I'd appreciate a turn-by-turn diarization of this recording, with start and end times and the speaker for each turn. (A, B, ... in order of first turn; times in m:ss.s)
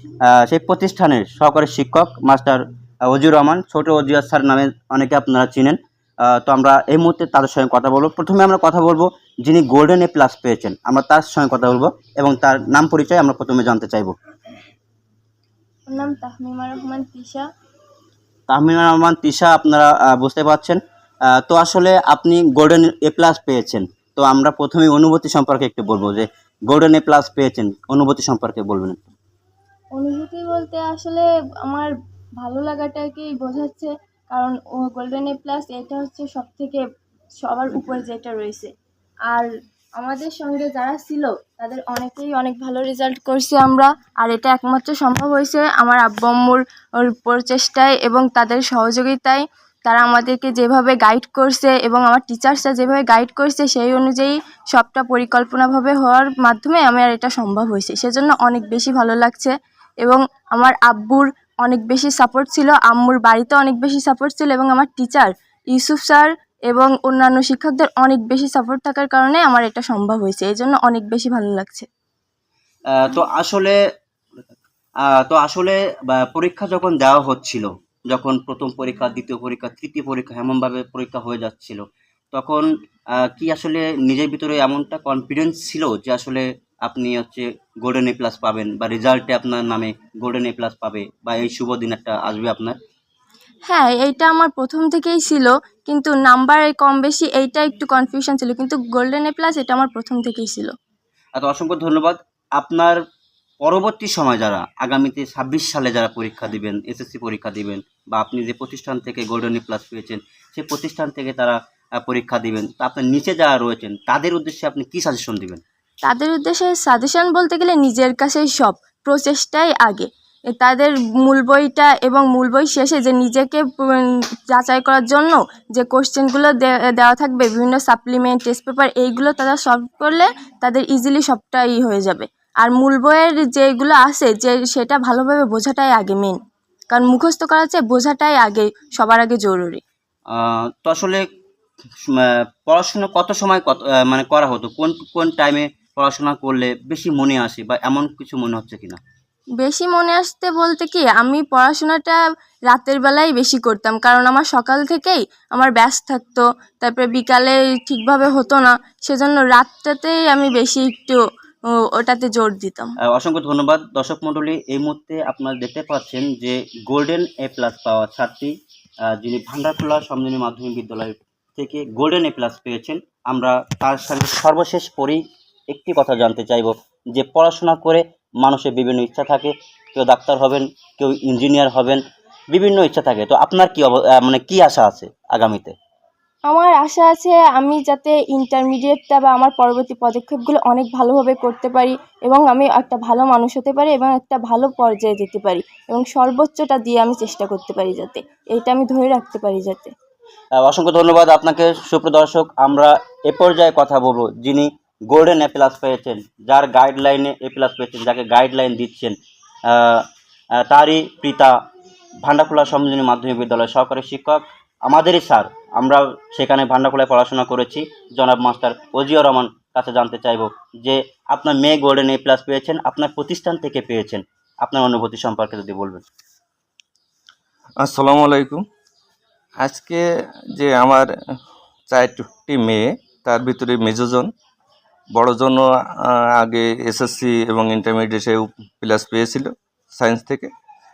0:00.2-0:14.1 A
0:15.9-0:17.4 B
0:18.5-0:20.8 A
0:21.3-0:29.1 A
0:29.9-0:31.9 B
0:32.4-0:36.8 B
0:37.4-0:38.7 B
0:39.3-1:11.9 B
1:12.9-1:13.8 A
1:15.1-1:21.8 A
1:22.3-1:32.8 A
1:33.7-1:40.7 B
1:41.4-1:43.0 A
1:43.6-1:55.6 A
1:56.0-2:16.4 B
2:16.9-2:19.8 B
2:20.3-2:21.2 A
2:22.1-2:29.0 A
2:29.6-2:41.2 B
2:42.0-2:42.9 B
2:43.1-2:48.5 A
2:49.1-3:02.0 A
3:02.5-3:05.7 A
3:06.5-3:19.9 B
3:20.6-3:29.2 A
3:29.7-3:30.0 A
3:30.6-3:31.5 A
3:32.2-3:46.0 A
3:47.8-3:48.6 C
3:49.6-3:50.0 C
3:50.5-3:51.1 C
3:51.9-3:54.3 C
3:55.1-4:00.5 C